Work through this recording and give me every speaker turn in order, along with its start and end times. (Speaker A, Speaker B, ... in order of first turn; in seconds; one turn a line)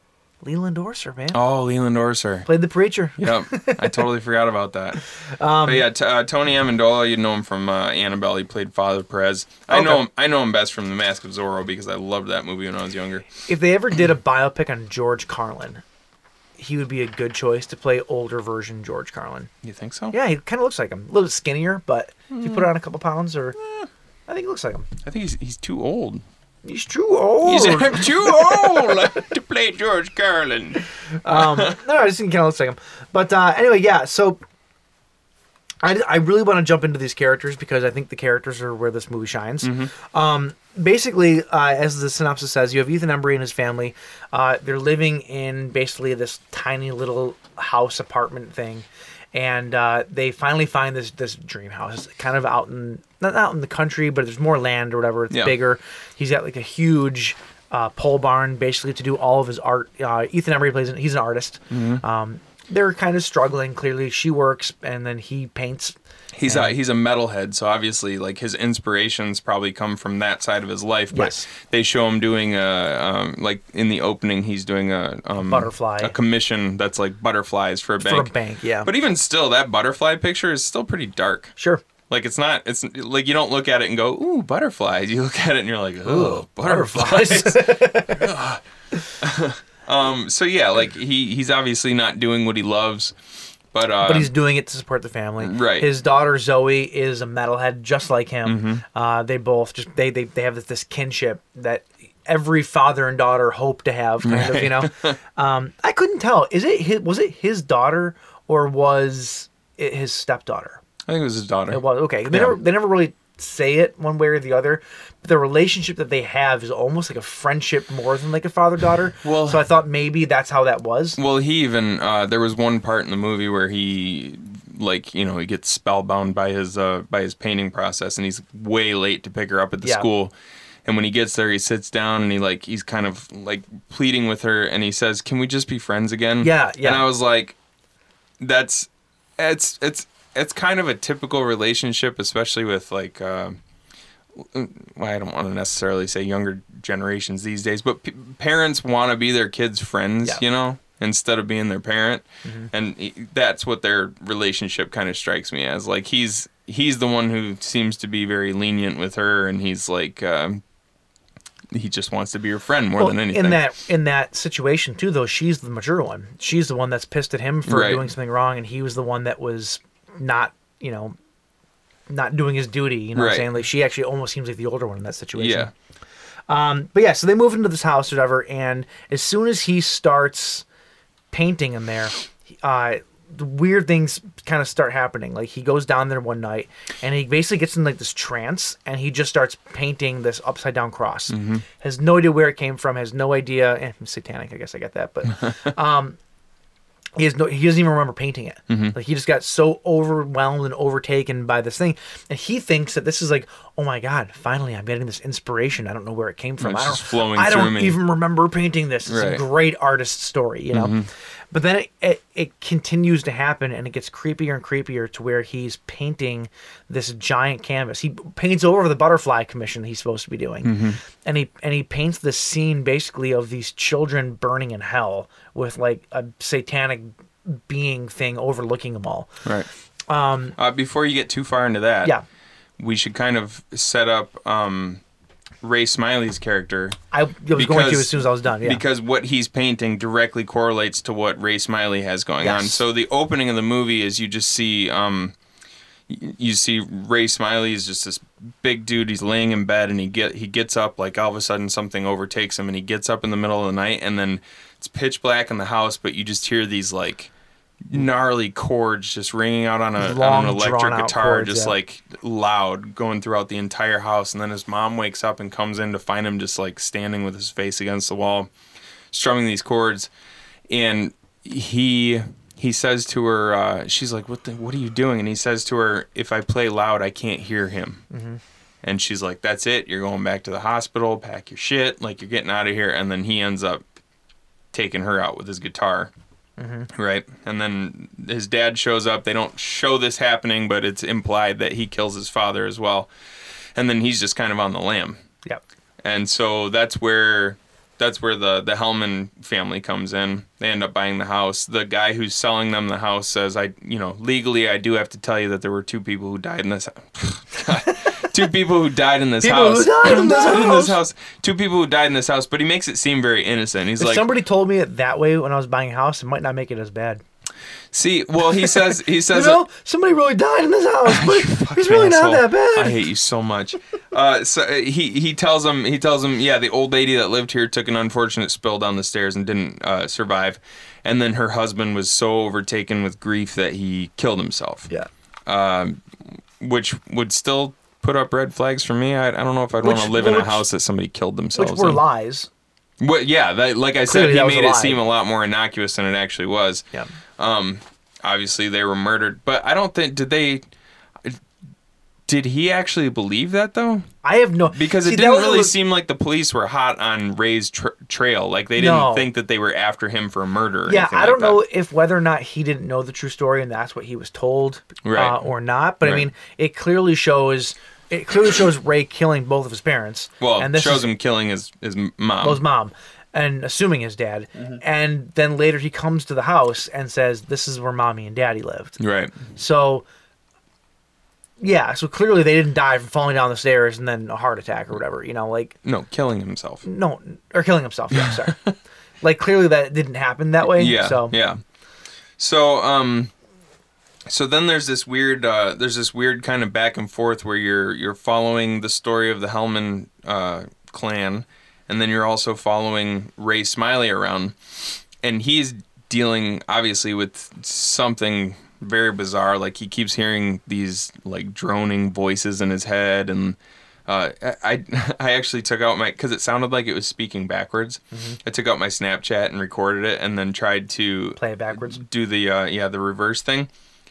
Speaker A: 0.4-1.4
Speaker B: 1.3-2.5
Speaker A: 2.5-4.0
Speaker B: 3.2-5.0
Speaker A: 5.3-5.9
Speaker B: 5.6-13.4
Speaker A: 9.7-10.0
Speaker A: 13.4-15.8
Speaker A: 16.6-19.5
Speaker B: 19.6-20.1
Speaker A: 20.1-23.6
Speaker B: 22.3-22.6
Speaker A: 24.3-24.9
Speaker B: 25.0-26.2
Speaker A: 26.6-29.1
Speaker B: 27.4-31.8
Speaker A: 31.2-34.4
Speaker A: 35.8-65.9
Speaker B: 39.6-39.9
Speaker B: 61.7-62.0
Speaker B: 66.3-78.3
Speaker A: 66.5-66.7
Speaker A: 71.1-71.5
Speaker A: 75.5-76.1
Speaker A: 78.0-78.9
Speaker B: 78.8-81.5
Speaker B: 82.1-88.6
Speaker A: 86.0-88.3
Speaker B: 89.2-93.1
Speaker B: 93.7-94.3
Speaker A: 94.0-110.8
Speaker B: 95.4-95.9
Speaker B: 98.4-98.8
Speaker B: 104.2-105.2
Speaker B: 111.1-112.5
Speaker A: 111.7-121.2
Speaker B: 119.2-119.6
Speaker B: 121.2-130.3
Speaker B: 130.8-137.5
Speaker A: 136.4-137.0
Speaker B: 138.4-143.6
Speaker B: 144.4-160.6
Speaker A: 152.4-152.7
Speaker B: 161.7-163.6
Speaker A: 163.0-171.2
Speaker B: 167.7-168.1
Speaker A: 172.1-175.7
Speaker B: 173.1-173.5
Speaker B: 175.4-175.7
Speaker A: 176.5-180.6
Speaker A: 181.3-196.2
Speaker B: 191.3-191.6
Speaker A: 197.2-210.9
Speaker B: 198.7-198.9
Speaker B: 206.6-208.0
Speaker B: 209.1-209.4
Speaker B: 210.7-211.1
Speaker A: 211.5-229.3
Speaker B: 220.6-221.0
Speaker A: 230.1-230.6
Speaker B: 230.6-232.1
Speaker B: 232.8-235.0
Speaker B: 235.6-237.0
Speaker A: 237.1-238.8
Speaker B: 237.5-245.3
Speaker A: 242.4-242.8
Speaker B: 246.1-257.3
Speaker B: 257.9-268.5
Speaker A: 260.0-261.7
Speaker B: 269.1-270.1
Speaker B: 270.7-278.0
Speaker A: 278.1-278.4
Speaker B: 278.8-283.8
Speaker B: 284.7-286.1
Speaker A: 286.6-286.9
Speaker B: 286.9-293.1
Speaker B: 293.8-295.2
Speaker B: 296.0-314.2
Speaker A: 309.4-311.0
Speaker A: 314.0-317.2
Speaker B: 317.9-319.6
Speaker A: 318.6-323.0
Speaker B: 321.0-334.9
Speaker B: 335.5-336.0
Speaker B: 336.6-342.0
Speaker A: 339.8-340.6
Speaker A: 341.6-342.5
Speaker B: 343.0-346.9
Speaker A: 344.1-345.0
Speaker B: 347.4-350.6
Speaker B: 352.3-354.1
Speaker A: 354.2-355.7
Speaker B: 354.7-361.6
Speaker A: 358.8-359.3
Speaker A: 360.9-371.1
Speaker B: 365.0-365.5
Speaker B: 366.0-366.3
Speaker B: 370.4-372.6
Speaker A: 372.4-380.0
Speaker B: 379.0-379.4
Speaker A: 381.6-385.7
Speaker B: 385.8-386.8
Speaker A: 386.8-388.6
Speaker B: 388.1-388.7
Speaker A: 389.2-391.3
Speaker B: 390.6-391.6
Speaker B: 392.4-393.3
Speaker B: 394.3-404.6
Speaker B: 405.2-423.7
Speaker A: 418.1-418.4
Speaker A: 421.4-422.0